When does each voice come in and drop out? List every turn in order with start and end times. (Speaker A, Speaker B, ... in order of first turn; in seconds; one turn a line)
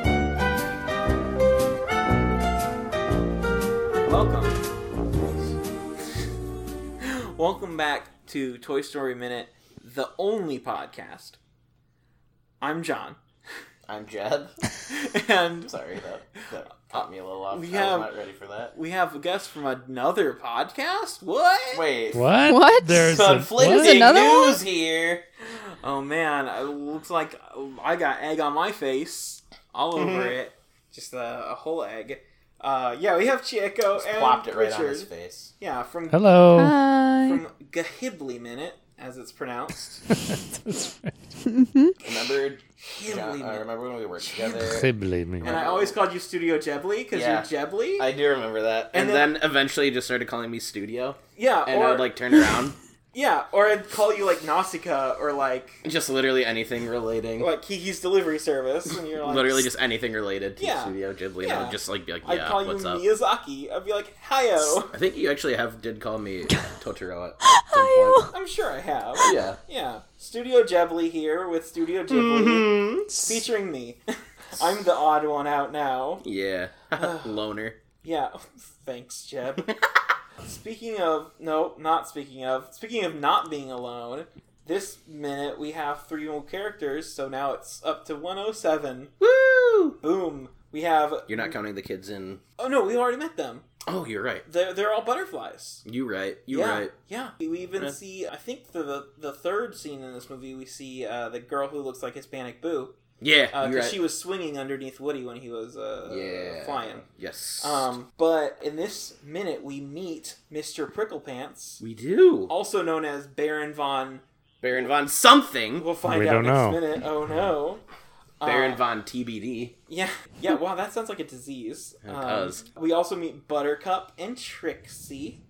Speaker A: 4.0-4.6
Speaker B: 5.2-5.5
Speaker A: 7.0-11.4
Speaker A: 12.6-13.2
Speaker B: 13.9-14.6
Speaker A: 14.9-15.8
Speaker B: 15.7-18.7
Speaker A: 17.5-18.1
Speaker A: 18.7-21.9
Speaker B: 21.7-22.2
Speaker C: 22.1-24.0
Speaker D: 22.5-24.6
Speaker B: 22.9-25.2
Speaker A: 25.6-36.5
Speaker B: 30.0-30.3
Speaker B: 34.0-35.5
Speaker C: 36.1-36.8
Speaker D: 36.5-37.4
Speaker A: 37.2-40.0
Speaker C: 40.1-41.1
Speaker D: 41.5-41.9
Speaker B: 42.0-44.9
Speaker A: 42.8-44.9
Speaker C: 44.7-45.6
Speaker B: 45.4-46.0
Speaker A: 45.4-48.1
Speaker B: 47.1-52.8
Speaker A: 48.9-49.4
Speaker A: 51.4-52.2
Speaker A: 53.1-55.8
Speaker B: 55.8-57.5
Speaker A: 57.4-59.7
Speaker B: 58.9-63.1
Speaker A: 60.6-64.9
Speaker B: 64.8-68.3
Speaker D: 67.5-68.3
Speaker A: 68.3-74.0
Speaker B: 69.2-69.6
Speaker B: 72.1-73.1
Speaker A: 74.5-76.2
Speaker B: 76.2-77.8
Speaker A: 77.0-77.3
Speaker A: 78.0-79.7
Speaker A: 80.4-89.1
Speaker B: 89.2-90.0
Speaker A: 90.0-91.6
Speaker B: 91.3-92.4
Speaker A: 92.6-93.7
Speaker B: 93.9-94.5
Speaker A: 94.5-95.8
Speaker B: 95.8-96.9
Speaker A: 96.5-102.9
Speaker B: 103.2-104.0
Speaker A: 103.5-107.0
Speaker B: 106.1-107.9
Speaker A: 107.6-111.8
Speaker B: 111.8-112.5
Speaker A: 112.5-114.2
Speaker B: 114.6-115.9
Speaker A: 115.8-117.8
Speaker C: 116.0-116.8
Speaker A: 118.4-118.8
Speaker B: 118.4-119.8
Speaker A: 119.9-125.4
Speaker B: 122.0-122.7